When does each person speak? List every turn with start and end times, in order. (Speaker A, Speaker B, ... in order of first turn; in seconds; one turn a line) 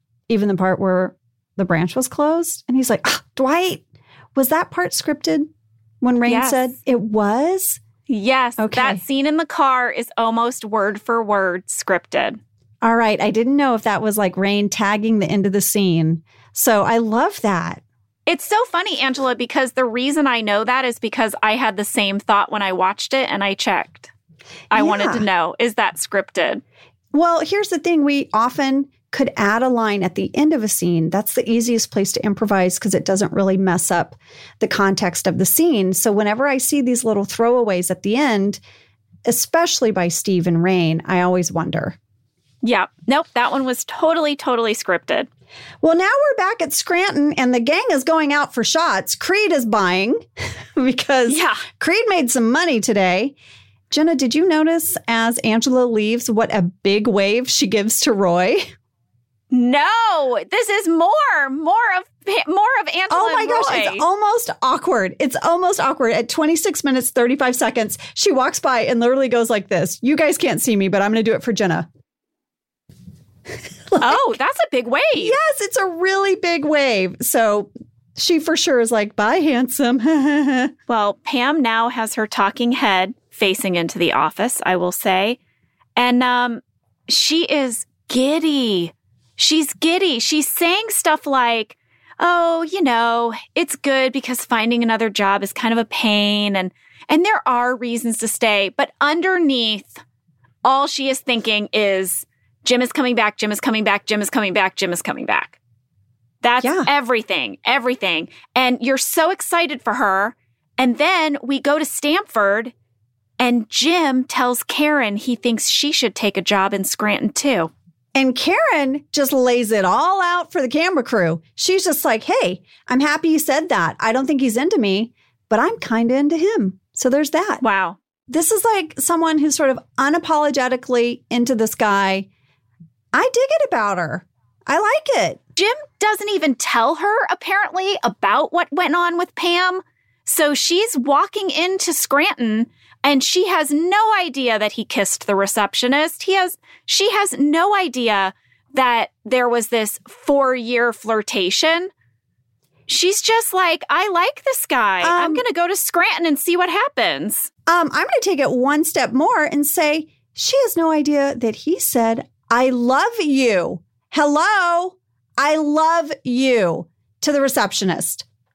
Speaker A: 0.3-3.8
Speaker A: 4.3-5.5
Speaker A: 6.0-7.8
Speaker B: 6.3-6.7
Speaker B: 8.1-12.4
Speaker A: 8.6-9.0
Speaker A: 12.8-17.8
Speaker B: 18.3-24.1
Speaker B: 24.7-26.6
Speaker A: 24.7-25.2
Speaker A: 27.1-38.6
Speaker A: 39.3-42.0
Speaker B: 42.6-45.3
Speaker A: 45.8-53.4
Speaker B: 51.3-51.6
Speaker A: 53.9-58.7
Speaker B: 59.5-64.0
Speaker A: 63.1-71.9
Speaker A: 73.9-74.2
Speaker B: 74.0-75.4
Speaker A: 75.2-80.7
Speaker B: 80.9-85.4
Speaker B: 86.0-100.0
Speaker B: 100.6-105.6
Speaker B: 106.4-112.7
Speaker A: 106.6-106.9
Speaker B: 113.4-117.7
Speaker A: 118.2-127.6
Speaker B: 127.6-128.0
Speaker A: 128.3-132.3
Speaker A: 133.1-135.4
Speaker B: 135.6-151.9
Speaker B: 152.9-157.5
Speaker A: 155.0-155.4
Speaker A: 157.7-168.2